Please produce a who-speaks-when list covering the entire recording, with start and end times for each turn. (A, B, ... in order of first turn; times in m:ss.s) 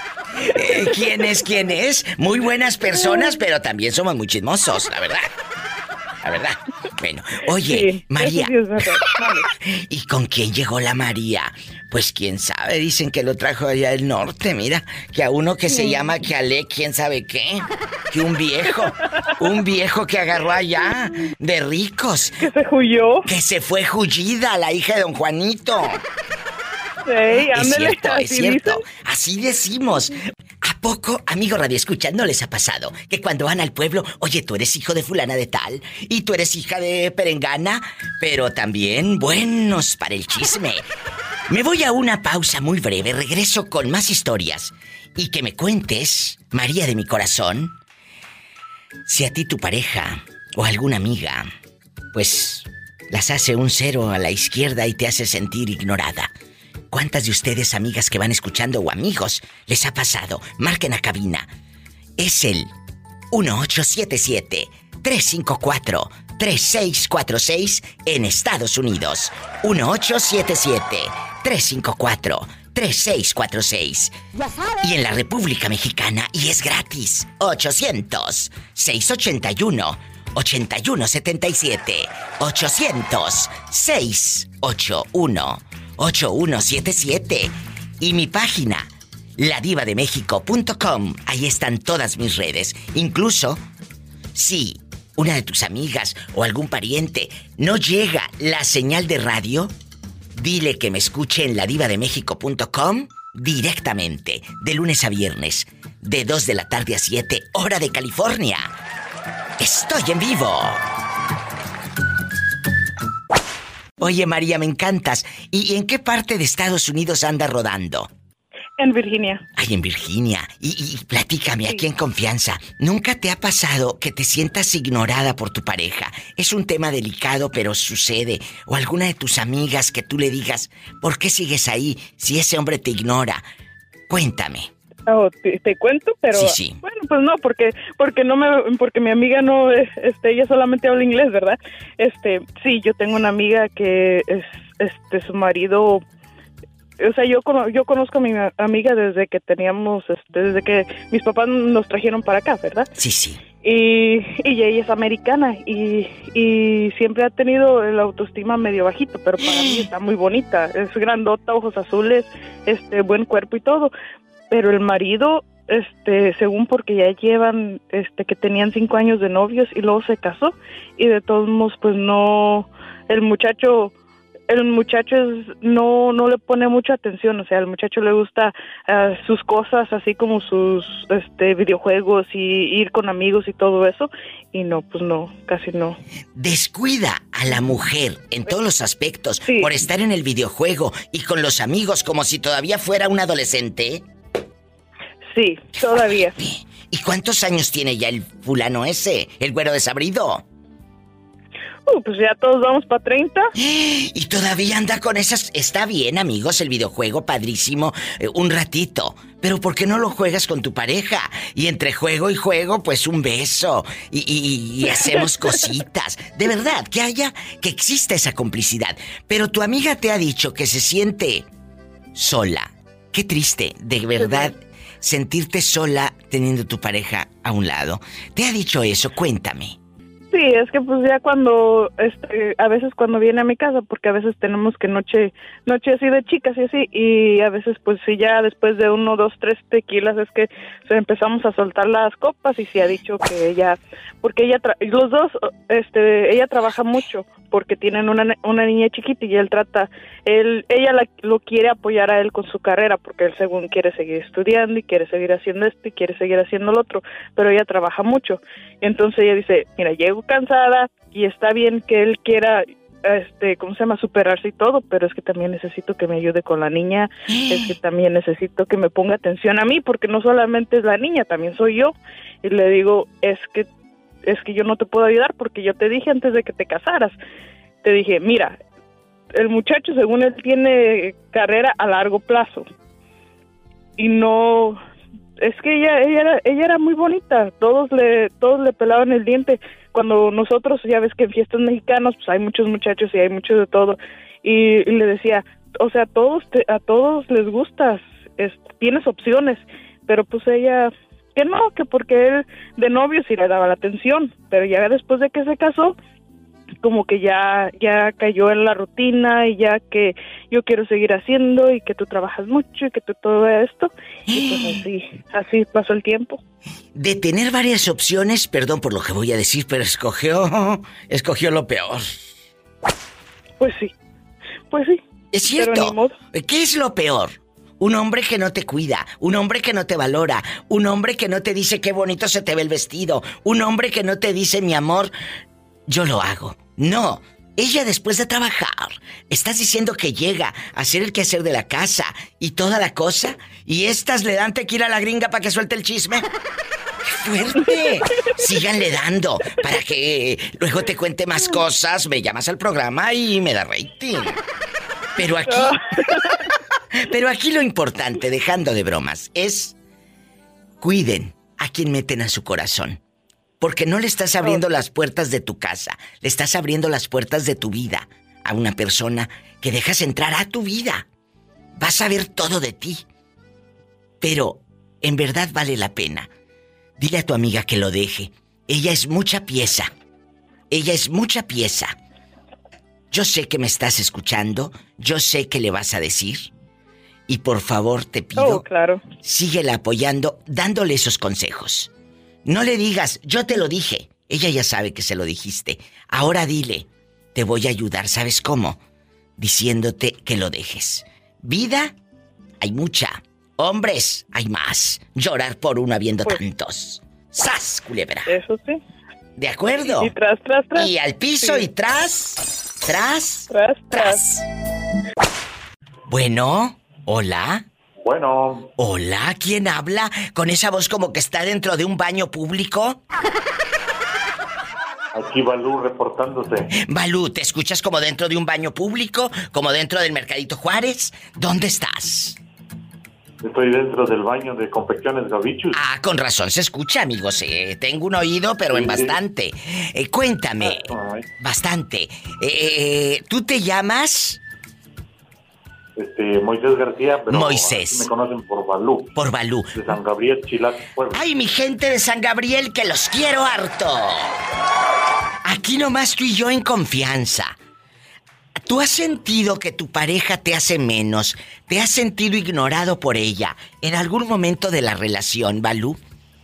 0:00.5-0:05.3 A
0:00.5-0:01.2 B
0:02.8-0:03.4 B
0:06.2-0:22.4 A
0:07.6-0:09.4 B
0:15.7-0:16.1 B
0:22.4-0:23.3 B
0:23.2-0:26.0 A
0:27.0-0:28.8 B
0:27.5-0:40.9 A
0:41.5-0:47.7 A
0:49.0-0:51.5 A
0:52.1-0:56.3 A
0:56.9-1:01.5 A
1:02.2-1:02.7 A
1:03.3-1:14.1 A
1:14.8-1:33.6 A
1:34.3-1:39.7 A
1:40.3-1:48.7 A
1:49.6-1:50.8 A
1:54.0-1:58.1 A
1:58.8-1:59.4 B
1:59.5-2:13.4 A
2:14.1-2:14.7 A
2:15.1-2:26.0 B
2:16.3-2:16.8 A
2:27.0-2:32.9 B
2:33.0-2:33.4 A
2:33.6-2:43.9 B
2:39.5-2:39.8 A
2:44.5-2:53.9 B
2:54.5-3:06.0 B
3:06.3-3:14.0 A
3:09.4-3:09.7 B
3:15.3-3:16.3 B
3:16.4-3:20.4 A
3:21.9-3:23.5 B
3:23.6-3:41.5 A
3:42.1-3:49.8 A
3:44.2-3:44.5 B
3:50.3-4:33.7 B
4:27.3-4:27.7 A
4:34.2-4:37.2 B
4:37.8-4:38.6 B
4:39.3-4:42.6 B
4:44.0-4:44.8 B
4:45.4-5:06.0 B
5:06.8-5:16.4 B
5:14.3-5:14.8 A
5:16.9-5:22.3 A
5:23.6-5:23.9 B
5:24.7-5:26.2 B
5:25.3-5:35.1 A
5:35.9-5:46.3 A
5:47.0-5:54.4 A
5:47.6-5:48.3 B
5:55.2-5:56.0 A
5:55.5-5:56.3 B
5:57.0-5:59.7 A
6:00.8-6:03.0 A
6:03.6-6:11.0 A
6:11.8-6:13.0 A
6:14.2-6:16.3 A
6:17.0-6:19.9 A
6:20.7-6:21.9 A
6:23.1-6:26.5 A
6:27.3-6:28.6 A
6:28.4-6:29.0 B
6:29.2-6:31.9 A
6:32.4-6:38.8 A
6:39.4-6:41.9 A
6:42.6-6:48.4 A
6:48.3-6:48.8 B
6:49.4-6:50.1 A
6:49.8-6:51.7 B
6:50.7-6:54.4 A
6:53.5-6:54.3 B
6:56.1-6:57.6 A
6:58.0-6:58.7 C
6:58.8-7:03.0 A
7:05.1-7:06.7 C
7:06.7-7:12.4 A
7:13.4-7:15.8 C
7:15.7-7:24.4 A
7:18.7-7:19.2 C
7:20.6-7:21.3 C
7:26.0-7:29.1 C
7:27.3-7:28.1 A
7:29.1-7:29.9 A
7:29.7-7:31.2 C
7:31.1-7:34.4 A
7:35.4-7:37.6 A
7:38.6-7:46.0 A